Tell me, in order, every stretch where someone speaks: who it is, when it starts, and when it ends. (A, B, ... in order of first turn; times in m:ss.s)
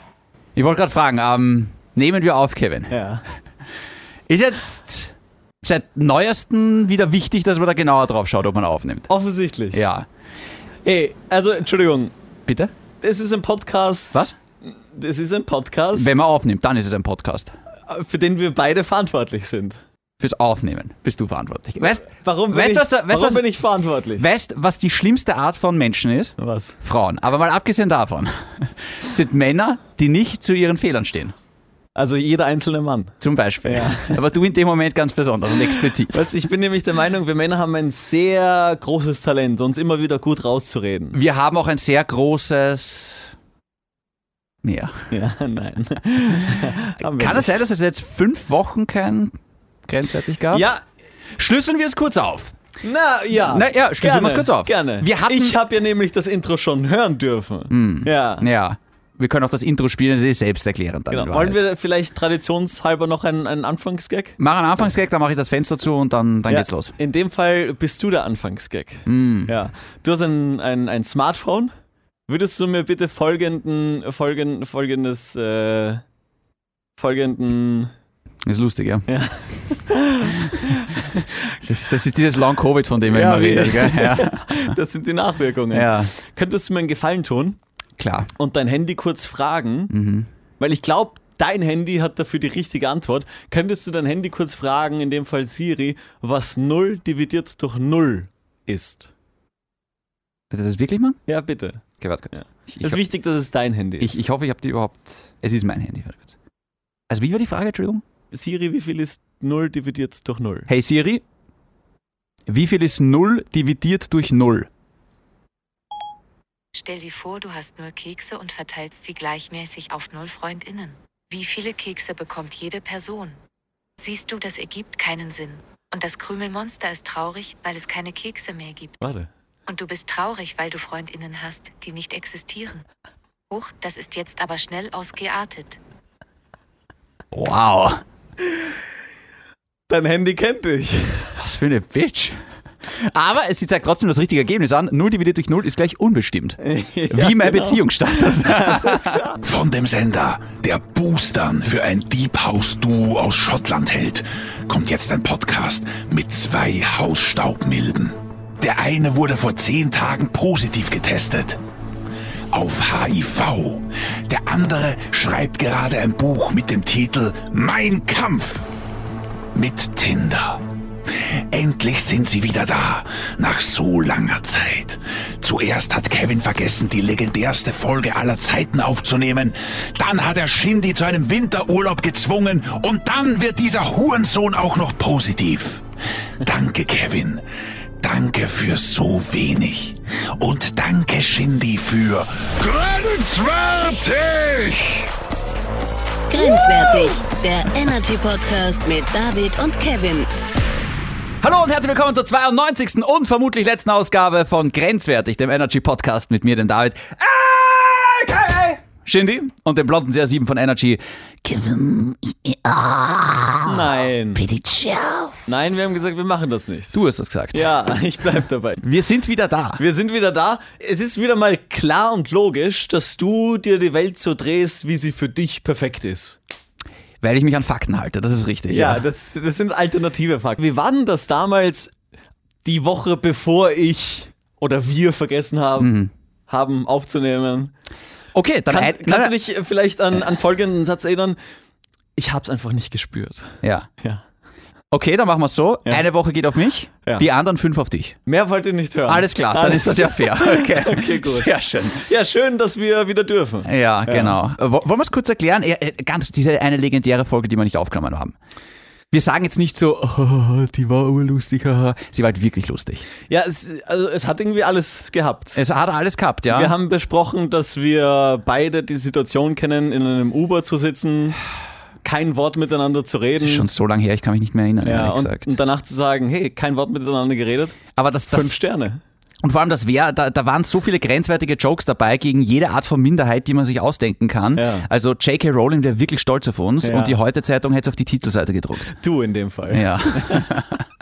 0:00.6-0:03.0 A
0:02.9-0:03.2 B
0:04.3-0:09.1 A
0:09.1-0:09.8 B
0:09.7-0:10.1 A
0:10.8-0:12.1 B
0:12.5-0:12.7 A
0:13.0-0:16.2 B
0:15.9-0:17.5 A
0:17.9-0:19.8 B
0:20.2-0:23.4 A
0:22.0-0:24.2 B
0:24.2-0:31.4 A
0:26.4-0:26.8 B
0:32.0-0:34.2 B
0:33.2-0:36.3 A
0:36.1-0:41.2 B
0:41.1-0:43.3 A
0:44.6-0:45.0 A
0:45.1-0:47.6 B
0:47.0-0:49.4 A
0:49.9-0:50.7 A
0:50.5-0:50.8 B
0:51.4-0:52.5 A
0:52.8-0:58.4 B
0:53.3-0:55.6 A
0:57.7-1:01.6 A
1:01.1-1:04.4 B
1:04.4-1:06.9 A
1:06.5-1:11.7 B
1:09.1-1:09.5 A
1:12.3-1:16.0 B
1:17.0-1:17.9 B
1:18.4-1:19.1 A
1:19.1-1:21.6 B
1:21.6-1:24.6 A
1:23.1-1:27.6 B
1:25.7-1:26.1 A
1:28.0-1:28.3 A
1:28.4-1:29.9 B
1:29.9-1:30.3 A
1:30.6-1:39.1 B
1:40.5-1:41.2 A
1:41.3-1:44.2 B
1:42.0-1:43.0 A
1:44.0-1:46.3 A
1:47.1-1:48.0 A
1:48.3-1:50.7 B
1:50.7-1:51.2 A
1:52.5-1:54.7 A
1:56.7-2:03.4 C
2:04.0-2:09.0 C
2:09.0-2:09.3 B
2:09.7-2:12.8 C
2:13.5-2:15.8 C
2:17.3-2:18.0 A
2:19.9-2:21.4 B
2:21.4-2:29.3 A
2:26.6-2:29.4 B
2:29.4-2:41.6 D
2:42.5-2:48.7 D
2:49.5-2:50.6 D
2:51.2-3:05.8 D
3:06.4-3:07.4 D
3:08.0-3:15.1 D
3:16.3-3:20.3 E
3:21.4-3:35.4 A
3:33.6-3:34.4 B
3:35.5-3:37.0 B
3:36.9-3:37.7 A
3:37.5-3:38.8 B
3:38.8-3:39.8 A
3:39.8-3:46.4 B
3:47.2-3:49.0 A
3:48.7-3:51.9 B
3:52.6-3:55.9 B
3:55.8-3:56.1 A
3:56.5-3:57.7 B
3:58.4-3:59.4 A
3:58.7-4:01.4 B
4:02.2-4:04.2 B
4:03.6-4:03.9 A
4:04.9-4:08.2 A
4:08.3-4:14.4 B
4:09.1-4:12.0 A
4:13.6-4:18.4 A
4:19.1-4:23.1 A
4:23.3-4:25.6 B
4:25.6-4:26.7 A
4:26.5-4:31.4 B
4:32.0-4:33.7 B
4:33.4-4:35.5 A
4:34.8-4:39.0 B
4:38.0-4:38.5 A
4:39.4-4:48.9 A
4:44.6-4:44.9 B
4:46.8-4:47.2 B
4:48.9-4:50.6 B
4:49.7-4:50.8 A